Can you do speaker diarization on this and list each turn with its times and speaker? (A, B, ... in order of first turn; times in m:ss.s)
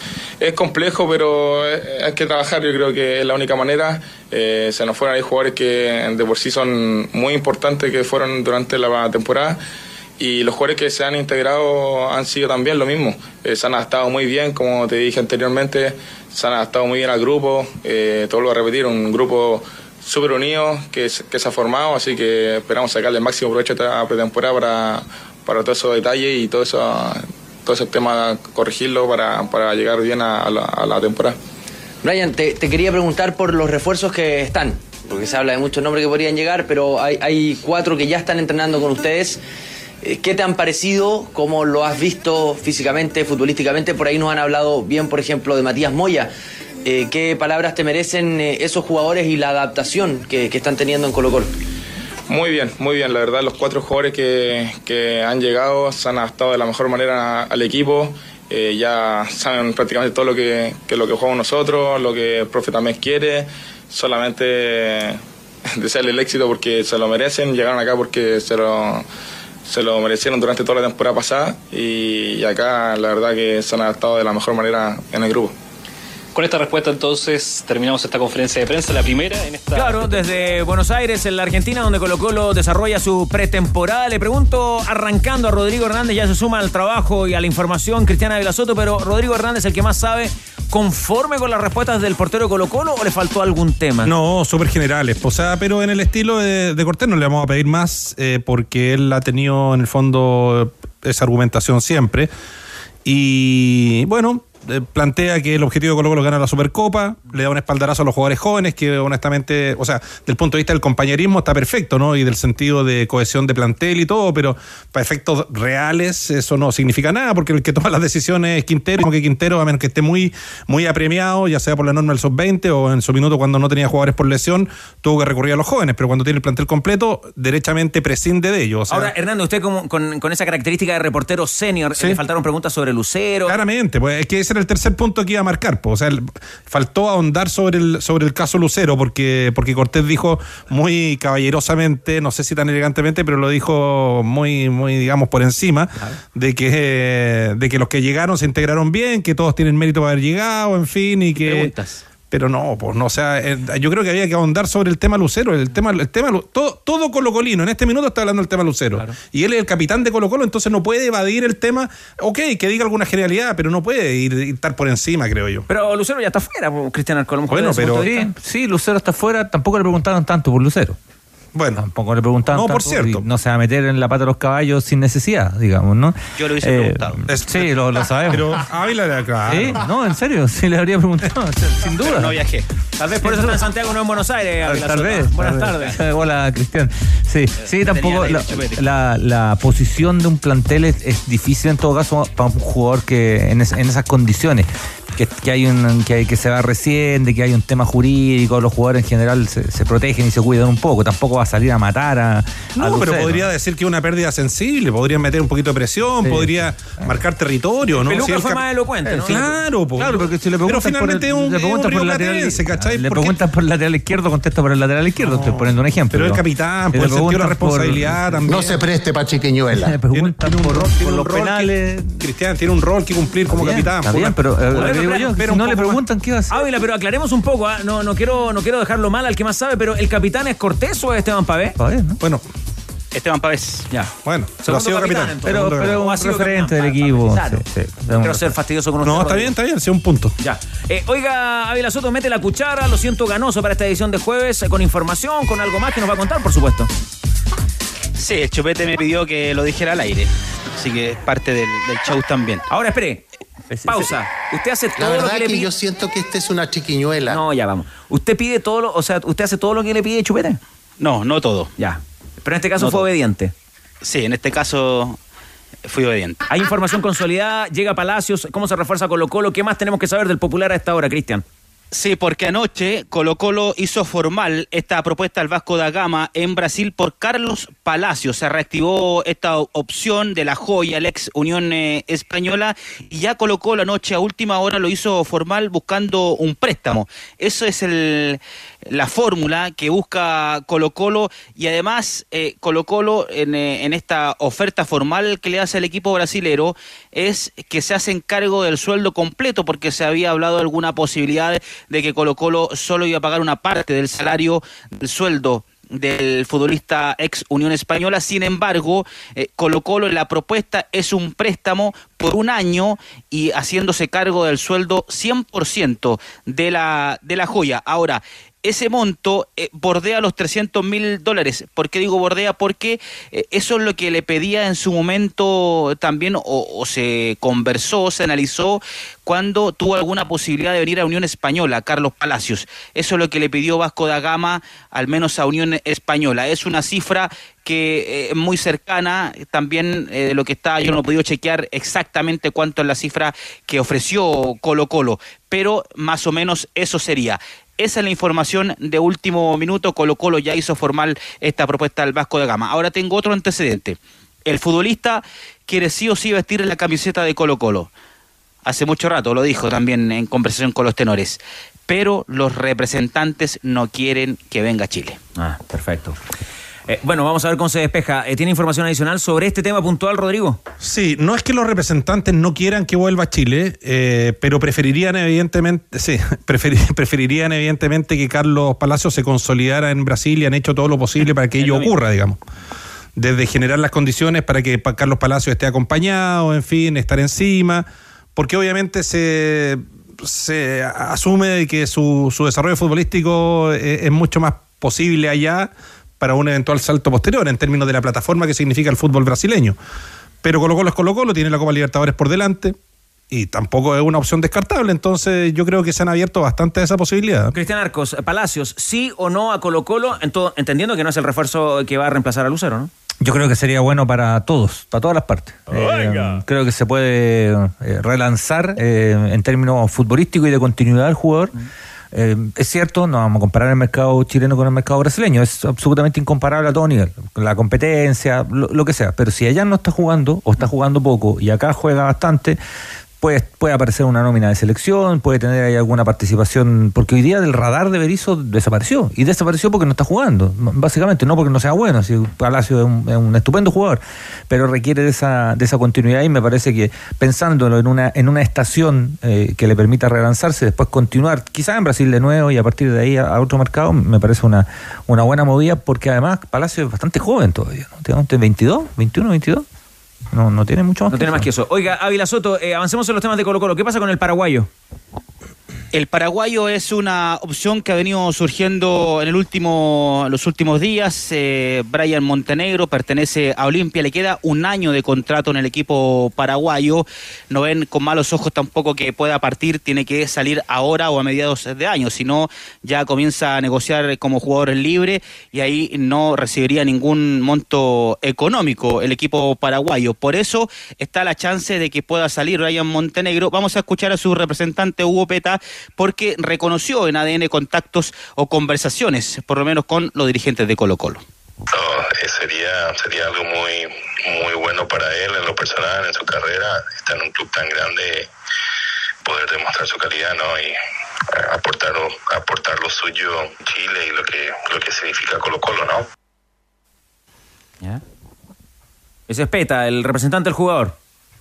0:00.4-0:09.6 A
0:10.2-0:31.4 A
0:32.0-0:39.4 B
0:40.0-0:46.3 B
0:46.8-0:51.5 B
0:52.3-1:05.2 A
1:05.7-1:09.0 A
1:09.7-1:15.5 A
1:16.3-1:20.4 C
1:19.7-1:34.1 D
1:34.0-1:42.3 E
1:43.0-2:09.1 E
2:08.9-2:13.6 D
2:13.4-2:31.7 E
2:31.4-2:32.0 F
2:32.3-2:45.6 E
2:45.7-2:48.2 D
2:47.5-2:48.1 E
2:48.0-2:51.0 G
2:51.5-2:51.8 E
2:51.8-2:58.6 G
2:52.5-2:53.2 E
2:56.4-2:57.2 F
2:57.3-2:59.8 E
2:59.4-3:02.4 G
3:02.0-3:02.6 F
3:03.0-3:06.0 D
3:03.2-3:03.6 G
3:04.7-3:23.5 G
3:07.7-3:08.8 F
3:07.9-3:08.5 D
3:22.8-3:28.6 E
3:26.2-3:27.1 G
3:27.9-3:29.5 D
3:29.0-3:36.4 G
3:29.2-3:33.4 E
3:35.2-3:38.8 E
3:36.9-3:38.7 G
3:38.5-3:40.0 H
3:39.7-3:42.2 G
3:40.1-3:46.0 E
3:43.5-3:46.6 G
3:44.7-3:45.4 D
3:46.5-3:51.8 D
3:51.8-3:52.2 G
3:53.1-3:53.9 F
3:53.9-3:59.5 D
3:54.2-3:56.0 E
3:55.4-3:58.5 G
3:59.0-4:00.3 E
4:00.4-4:06.9 D
4:08.2-4:12.6 F
4:12.7-4:13.2 D
4:13.7-4:14.1 G
4:13.8-4:15.7 D
4:15.0-4:17.4 H
4:17.3-4:20.6 D
4:21.0-4:21.7 F
4:21.8-4:23.5 D
4:24.0-4:25.2 F
4:25.8-4:26.4 F
4:26.5-4:31.4 D
4:31.9-5:57.9 F
5:58.6-6:05.2 F
6:05.4-6:06.2 D
6:06.9-6:10.6 D
6:10.8-6:22.4 E
6:23.2-6:39.8 E
6:40.4-6:42.8 E
6:43.3-6:47.5 E
6:47.5-6:52.9 D
6:53.2-7:01.5 G
6:55.8-6:56.3 D
7:02.1-7:12.6 G
7:13.2-7:39.6 G
7:40.3-7:41.5 G
7:41.1-7:44.7 D
7:45.9-8:21.2 F
8:21.7-8:28.3 I
8:29.2-8:30.8 I
8:31.3-8:36.0 I
8:39.3-8:40.9 D